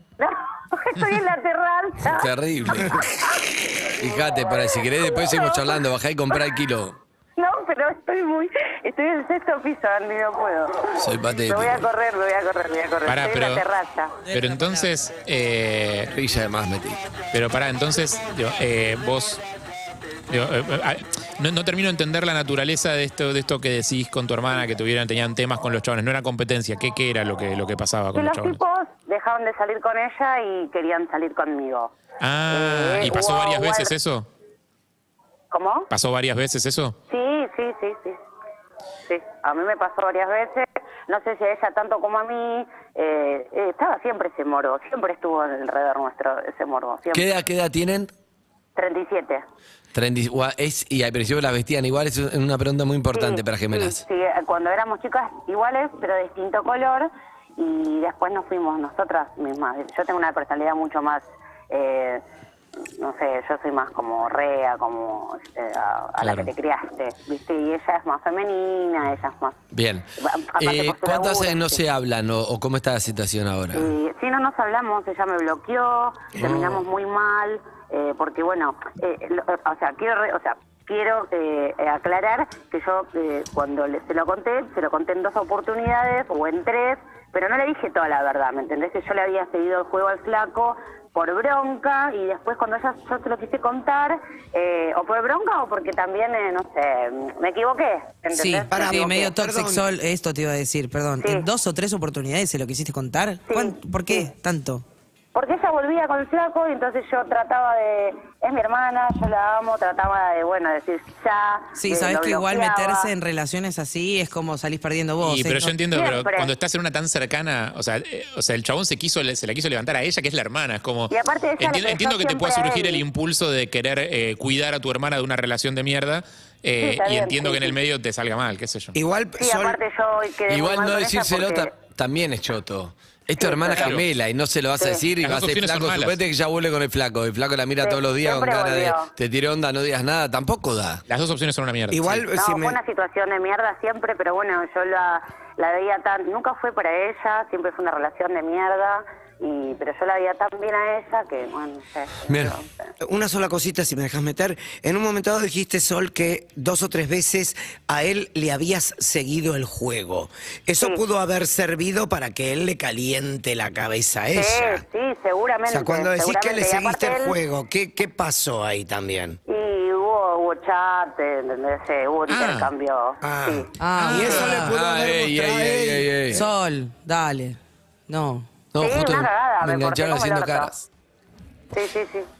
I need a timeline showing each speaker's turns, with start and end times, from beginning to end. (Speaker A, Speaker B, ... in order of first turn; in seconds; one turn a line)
Speaker A: 0.2-2.3
Speaker B: 2.0-3.2
Speaker B: 4.0-7.0
Speaker A: 4.3-5.8
Speaker A: 7.4-14.2
Speaker B: 11.0-11.9
Speaker C: 13.1-13.6
Speaker D: 14.3-14.9
Speaker C: 14.3-16.1
Speaker B: 16.1-17.0
Speaker C: 17.3-19.4
Speaker C: 20.3-28.6
Speaker A: 28.1-31.9
Speaker C: 32.2-34.3
Speaker A: 32.5-33.9
Speaker A: 35.5-35.9
Speaker C: 35.9-37.0
Speaker A: 37.1-38.2
Speaker A: 39.1-47.3
Speaker B: 47.1-48.1
Speaker A: 48.8-49.4
Speaker B: 49.9-54.0
Speaker A: 53.1-62.2
Speaker A: 62.9-69.6
Speaker B: 69.7-73.9
Speaker A: 70.2-71.8
Speaker A: 73.7-99.3
Speaker B: 76.4-76.8
Speaker D: 98.3-104.8
Speaker E: 98.7-99.9
Speaker A: 101.2-101.5
Speaker A: 103.5-104.3
Speaker A: 105.3-113.1
Speaker D: 111.8-115.8
Speaker C: 115.2-128.9
Speaker A: 115.9-116.5
Speaker A: 121.1-123.0
Speaker A: 126.8-127.8
Speaker E: 128.9-129.8
Speaker A: 129.4-131.7
Speaker B: 130.5-141.0
Speaker A: 133.4-133.9
Speaker C: 133.7-134.0
Speaker C: 135.2-136.1
Speaker A: 137.8-139.1
Speaker C: 141.1-142.2
Speaker E: 141.9-142.8
Speaker A: 142.3-152.9
Speaker B: 152.3-152.6
Speaker E: 153.0-164.8
Speaker A: 164.3-167.4
Speaker E: 165.7-169.4
Speaker A: 169.4-173.7
Speaker C: 172.3-172.7
Speaker E: 173.2-176.4
Speaker D: 173.8-174.8
Speaker C: 174.0-174.4
Speaker B: 174.1-176.4
Speaker D: 176.3-178.5
Speaker B: 178.7-180.8
Speaker A: 178.8-180.7
Speaker A: 181.7-182.3